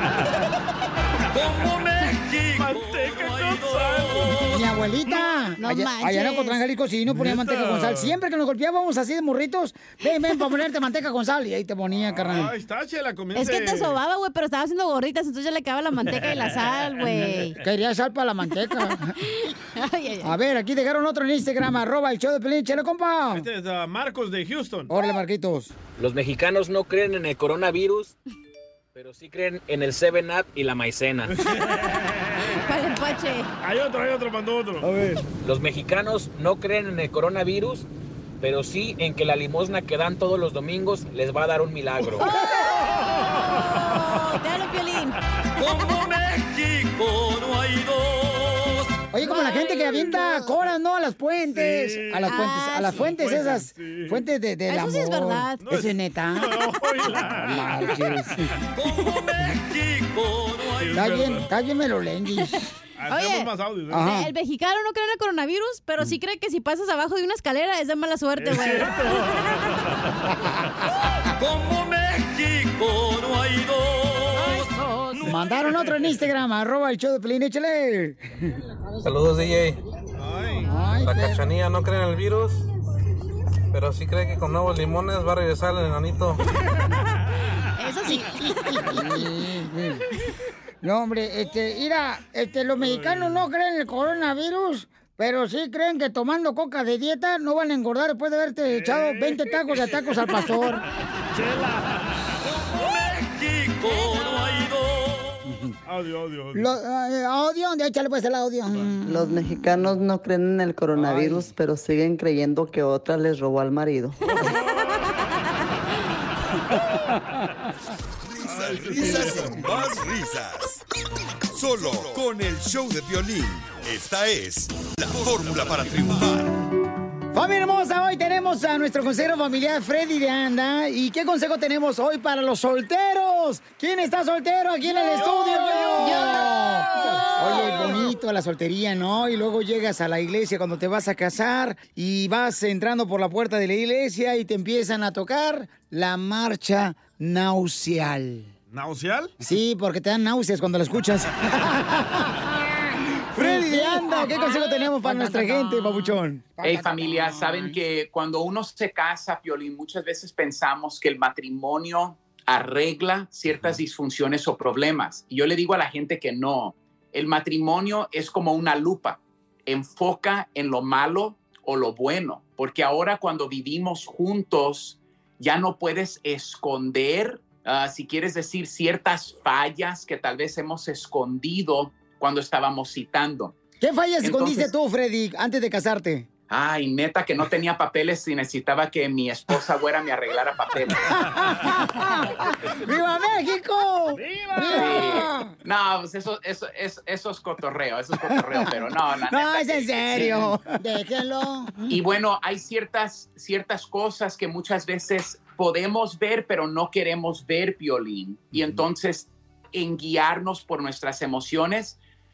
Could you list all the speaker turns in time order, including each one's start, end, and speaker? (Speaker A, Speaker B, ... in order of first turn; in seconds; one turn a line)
Speaker A: 1.3-4.5
Speaker B: 2.5-4.4
Speaker C: 4.5-12.5
Speaker D: 5.6-6.6
Speaker B: 7.1-8.2
Speaker B: 11.9-14.0
Speaker D: 13.3-17.6
Speaker B: 17.0-17.4
Speaker C: 17.6-19.2
Speaker D: 19.4-20.3
Speaker C: 20.2-23.4
Speaker B: 23.3-24.9
Speaker C: 24.9-25.7
Speaker E: 26.0-28.1
Speaker E: 28.9-31.3
Speaker B: 31.3-32.5
Speaker D: 32.6-33.5
Speaker B: 33.6-35.2
Speaker E: 35.4-37.9
Speaker E: 38.4-42.3
Speaker D: 42.2-45.2
Speaker A: 45.6-48.9
Speaker C: 49.1-56.6
Speaker D: 49.3-50.2
Speaker B: 51.5-52.4
Speaker D: 52.3-53.1
Speaker B: 53.1-54.2
Speaker D: 54.7-55.6
Speaker B: 55.6-58.3
Speaker C: 57.3-58.5
Speaker A: 58.8-60.9
Speaker B: 60.8-61.5
Speaker C: 60.9-62.7
Speaker B: 63.0-64.2
Speaker D: 63.1-63.5
Speaker C: 63.9-64.3
Speaker D: 64.0-69.6
Speaker B: 68.4-69.9
Speaker A: 71.4-74.6
Speaker C: 74.5-78.3
Speaker B: 75.6-76.2
Speaker F: 79.0-79.8
Speaker B: 80.2-80.7
Speaker C: 80.6-81.5
Speaker F: 81.0-82.6
Speaker F: 83.7-86.4
Speaker D: 87.8-89.0
Speaker C: 88.1-90.0
Speaker C: 90.8-100.8
Speaker B: 92.8-93.4
Speaker B: 98.7-100.3
Speaker B: 101.3-102.3
Speaker A: 103.1-105.0
Speaker C: 105.4-105.7
Speaker B: 105.9-106.6
Speaker C: 106.5-109.4
Speaker G: 109.0-114.2
Speaker B: 110.9-111.4
Speaker B: 114.2-115.1
Speaker H: 118.2-120.8
Speaker B: 118.5-119.7
Speaker H: 121.5-126.5
Speaker C: 127.3-148.5
Speaker B: 134.8-137.9
Speaker D: 136.0-138.0
Speaker B: 148.7-149.3
Speaker C: 149.4-152.8
Speaker C: 153.3-157.7
Speaker D: 153.7-156.1
Speaker I: 156.6-183.6
Speaker C: 183.8-186.3
Speaker I: 184.2-184.7
Speaker I: 186.5-191.1
Speaker C: 191.2-195.5
Speaker B: 194.2-195.1
Speaker I: 194.7-200.6
Speaker C: 198.3-198.7
Speaker C: 199.3-201.9
Speaker I: 201.9-212.0